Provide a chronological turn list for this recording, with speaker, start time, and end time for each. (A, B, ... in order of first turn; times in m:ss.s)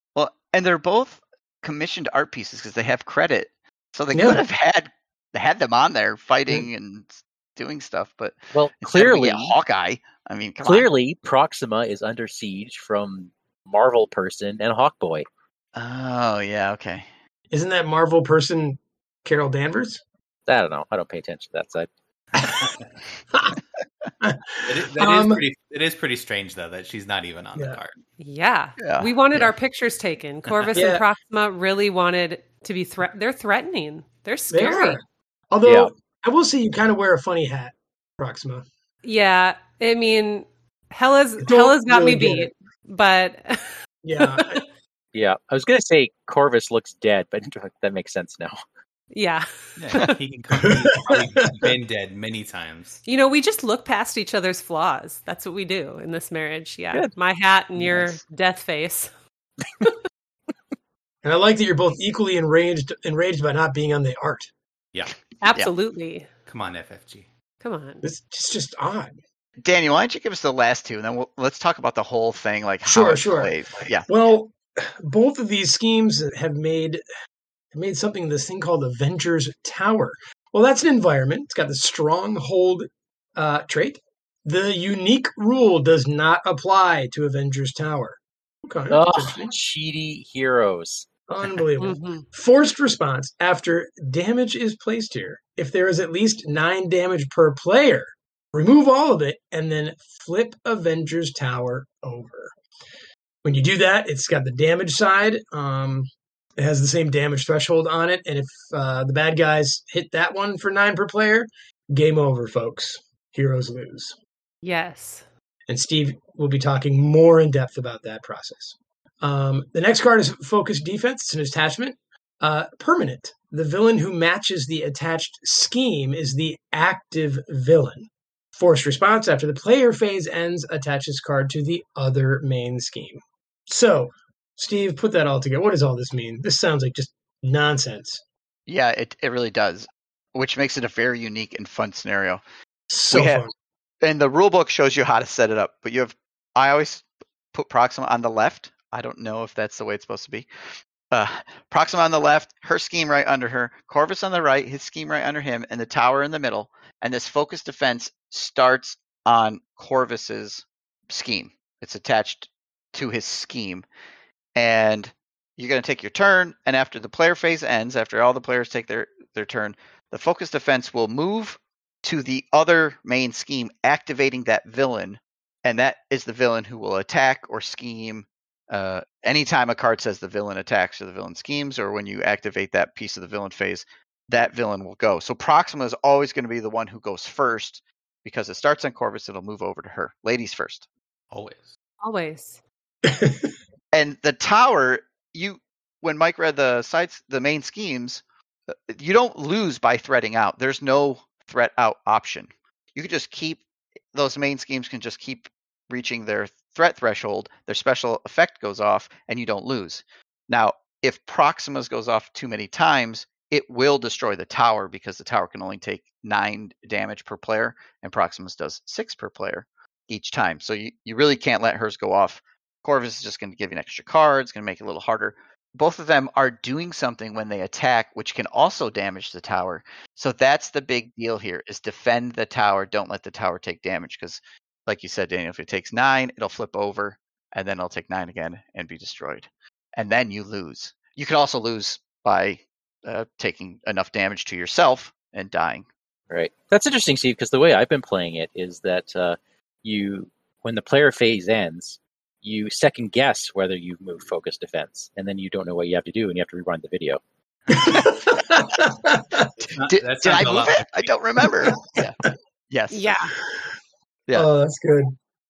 0:00.2-0:10.9 A
0:04.1-0:04.4 B
0:08.5-0:09.6 C
0:10.6-0:15.2 C
0:15.7-0:17.0 A
0:17.5-0:20.0 B
0:20.5-0:21.9 C
0:22.4-0:22.7 B
0:22.4-0:22.9 D
0:24.2-0:25.4 B
0:24.7-0:27.9 D
0:28.2-0:35.0 E
0:28.8-0:29.5 A
0:30.7-0:31.0 B
0:34.5-0:38.6 B
0:35.6-0:35.9 C
0:39.0-0:44.6 E
0:41.4-0:42.5 B
0:44.0-0:44.6 B
0:45.1-0:48.6 C
0:49.1-0:50.0 E
0:49.8-0:53.0 D
0:50.6-0:51.2 B
0:53.0-0:59.1 E
0:57.9-0:58.1 B
1:01.2-1:04.5 B
1:05.4-1:06.3 E
1:06.5-1:07.3 D
1:07.6-1:08.0 E
1:08.0-1:09.2 B
1:09.6-1:14.1 A
1:12.8-1:13.5 B
1:14.1-1:17.0 B
1:17.7-1:29.5 B
1:28.9-1:31.1 C
1:31.3-1:42.5 B
1:31.8-1:32.2 E
1:43.4-1:54.2 B
1:54.6-1:55.2 E
1:55.7-2:18.2 B
2:18.7-2:22.4 A
2:22.9-2:23.5 B
2:23.1-2:23.4 A
2:24.0-2:30.5 A
2:31.1-2:43.9 A
2:44.5-3:10.9 A
3:11.3-3:11.7 D
3:12.0-3:12.6 E
3:13.0-3:13.5 B
3:13.9-3:18.2 A
3:18.9-4:05.9 A
4:06.3-4:17.2 C
4:17.7-4:19.5 B
4:19.6-4:22.2 A
4:19.7-4:21.1 D
4:21.6-4:22.3 B
4:22.7-4:23.2 A
4:22.9-4:23.3 E
4:24.3-4:25.1 B